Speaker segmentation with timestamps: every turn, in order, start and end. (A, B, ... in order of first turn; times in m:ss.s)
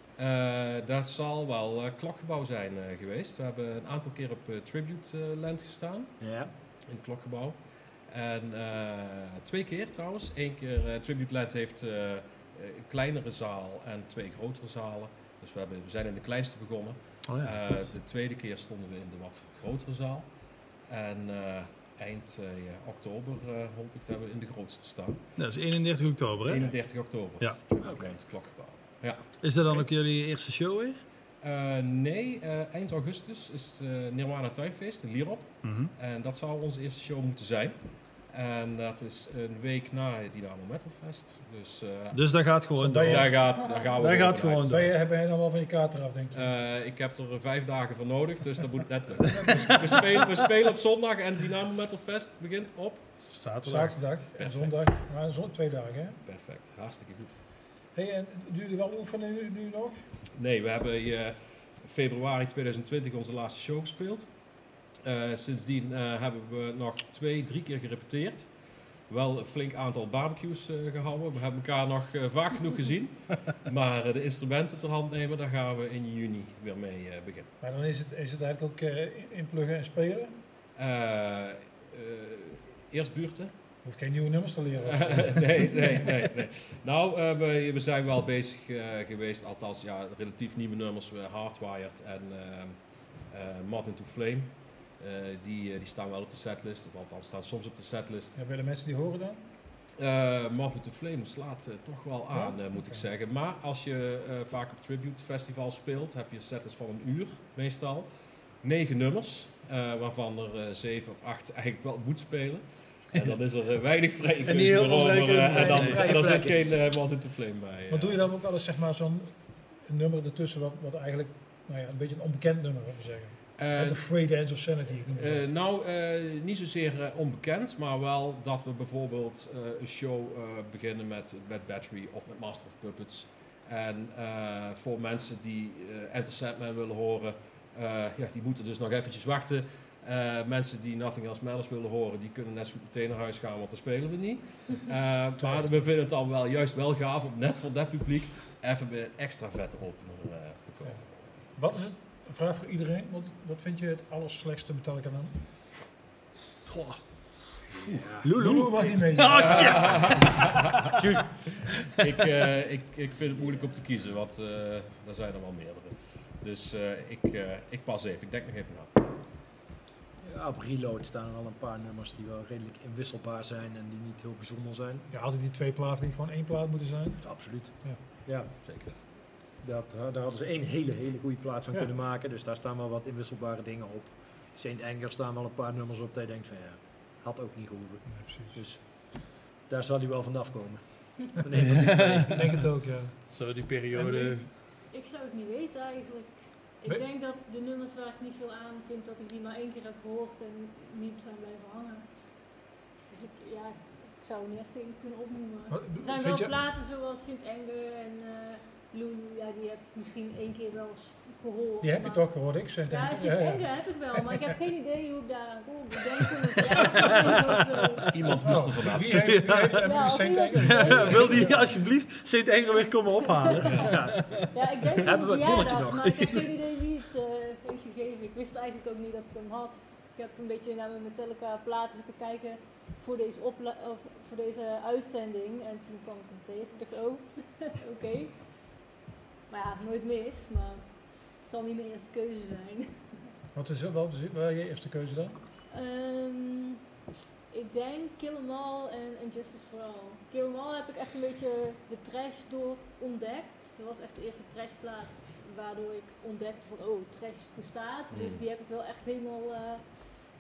0:00.2-0:25.3 A
0:06.2-0:06.5 B
0:17.3-0:17.9 C
0:25.4-0:27.6 C
0:26.4-0:29.9 A
0:27.8-0:28.1 B
0:29.4-0:31.0 C
0:31.4-0:44.9 A
0:35.6-0:35.9 C
0:42.1-0:44.9 C
0:42.8-0:43.3 D
0:43.6-0:43.9 E
0:44.7-0:46.4 D
0:46.3-0:53.4 A
0:53.2-0:54.2 C
0:53.6-0:56.2 D
0:54.4-0:55.0 A
0:56.2-0:57.4 A
0:57.9-1:00.0 D
1:00.4-1:17.5 A
1:17.6-1:20.3 D
1:20.8-1:23.5 A
1:23.8-1:26.0 D
1:24.8-1:38.4 A
1:38.4-1:39.4 D
1:40.0-1:58.2 A
1:42.3-1:43.0 D
1:54.4-1:56.4 C
1:55.2-1:56.7 B
1:57.9-2:05.6 D
2:03.6-2:04.5 A
2:05.1-2:31.4 A
2:25.4-2:25.9 D
2:30.8-2:35.4 D
2:36.7-2:37.4 C
2:37.7-2:38.4 B
2:38.2-2:40.6 C
2:38.4-2:40.2 D
2:39.5-2:40.4 A
2:39.5-2:40.3 B
2:41.0-2:41.7 B
2:42.0-2:49.0 A
2:50.2-2:55.1 B
2:55.1-2:58.0 D
2:57.2-3:12.5 B
2:58.6-2:59.0 A
3:08.1-3:08.6 D
3:11.7-3:12.7 C
3:12.3-3:14.4 D
3:13.3-3:14.5 C
3:14.7-3:22.5 E
3:23.1-3:38.1 E
3:25.7-3:26.6 D
3:31.8-3:34.2 D
3:38.1-3:39.5 A
3:38.4-3:41.7 D
3:39.0-3:40.0 C
3:39.7-3:41.4 E
3:40.6-3:44.2 C
3:42.9-3:43.6 E
3:43.9-3:46.3 B
3:44.4-3:58.7 E
3:46.0-3:46.4 C
3:59.5-4:03.2 E
4:03.5-4:05.4 D
4:05.7-4:06.8 E
4:07.5-4:20.0 E
4:18.1-4:18.4 A